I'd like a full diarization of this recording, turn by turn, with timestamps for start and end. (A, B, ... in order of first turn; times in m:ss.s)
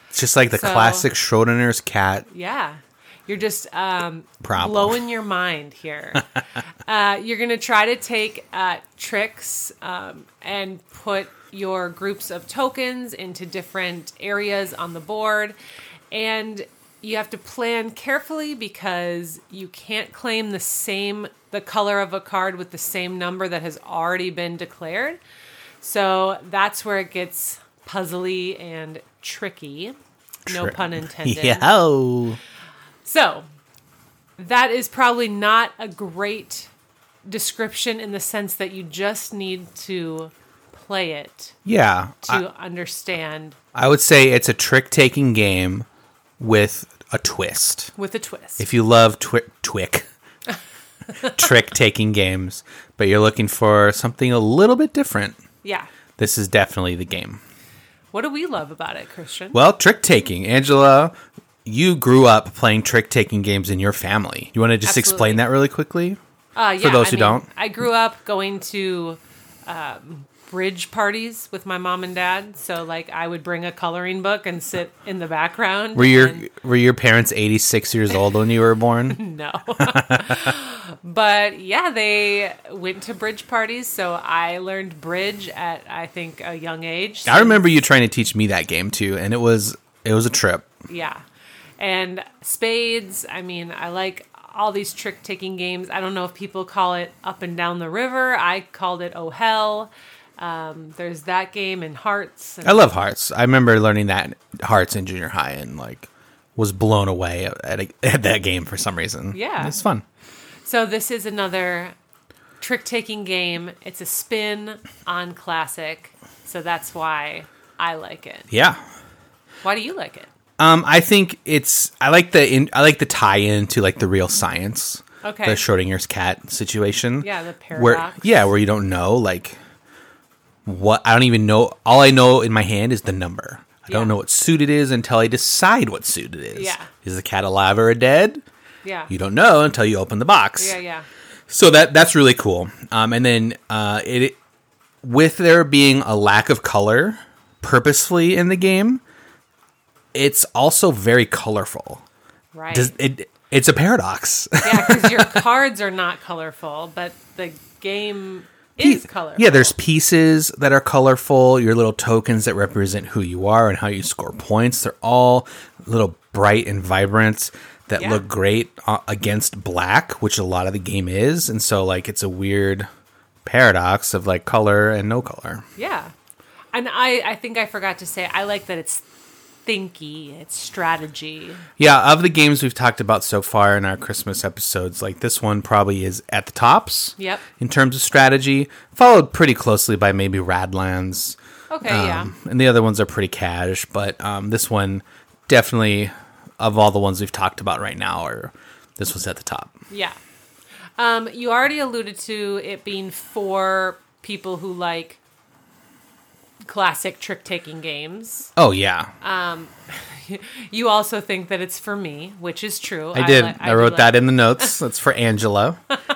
0:00.1-0:02.3 A
0:00.5-0:01.1 B
0:02.3-0:06.2 B
0:04.4-0:05.0 A
0:06.8-0:15.6 B
0:16.1-0:25.2 B
0:25.8-0:30.0 B
0:30.4-0:32.4 A
0:30.5-0:31.7 B
0:33.0-0:33.4 B
0:34.4-0:36.7 B
0:37.3-0:41.5 B
0:41.6-0:42.4 A
0:42.2-0:43.6 B
0:43.7-0:45.8 A
0:46.4-0:47.9 A
0:48.0-0:48.6 B
0:48.6-0:50.0 A
0:51.2-0:55.4 A
0:55.6-0:55.9 B
0:56.2-0:57.4 A
0:58.1-0:59.6 B
0:59.5-1:01.1 A
1:01.6-1:06.2 A
1:04.8-1:05.4 B
1:06.6-1:16.4 B
1:06.8-1:07.4 A
1:15.9-1:19.2 A
1:19.1-1:27.7 B
1:19.8-1:20.5 A
1:27.2-1:30.7 A
1:30.9-1:31.2 B
1:31.8-1:42.9 B
1:42.6-1:50.0 A
1:49.3-1:49.8 B
1:50.6-1:51.9 B
1:52.6-1:58.5 B
1:58.5-1:58.8 A
1:59.6-2:00.3 B
2:00.6-2:09.6 A
2:05.2-2:05.6 B
2:07.2-2:08.4 B
2:10.6-2:18.4 A
2:13.9-2:14.1 B
2:16.5-2:16.9 B
2:18.8-2:19.1 B
2:19.1-2:20.8 A
2:20.6-2:21.1 B
2:21.5-2:24.4 A
2:25.0-2:29.0 A
2:30.1-2:32.0 A
2:32.5-2:32.9 B
2:32.7-2:35.4 A
2:34.6-2:39.7 B
2:38.8-2:52.9 A
2:48.0-2:48.2 B
2:53.4-2:55.6 A
2:55.8-2:56.1 B
2:56.7-2:59.1 B
2:59.6-3:01.6 B
3:01.8-3:19.8 A
3:07.2-3:07.4 B
3:11.7-3:12.3 B
3:19.9-3:20.2 B
3:21.0-3:25.2 B
3:26.6-3:28.5 B
3:28.6-3:29.1 A
3:29.2-3:34.8 B
3:33.1-3:35.8 A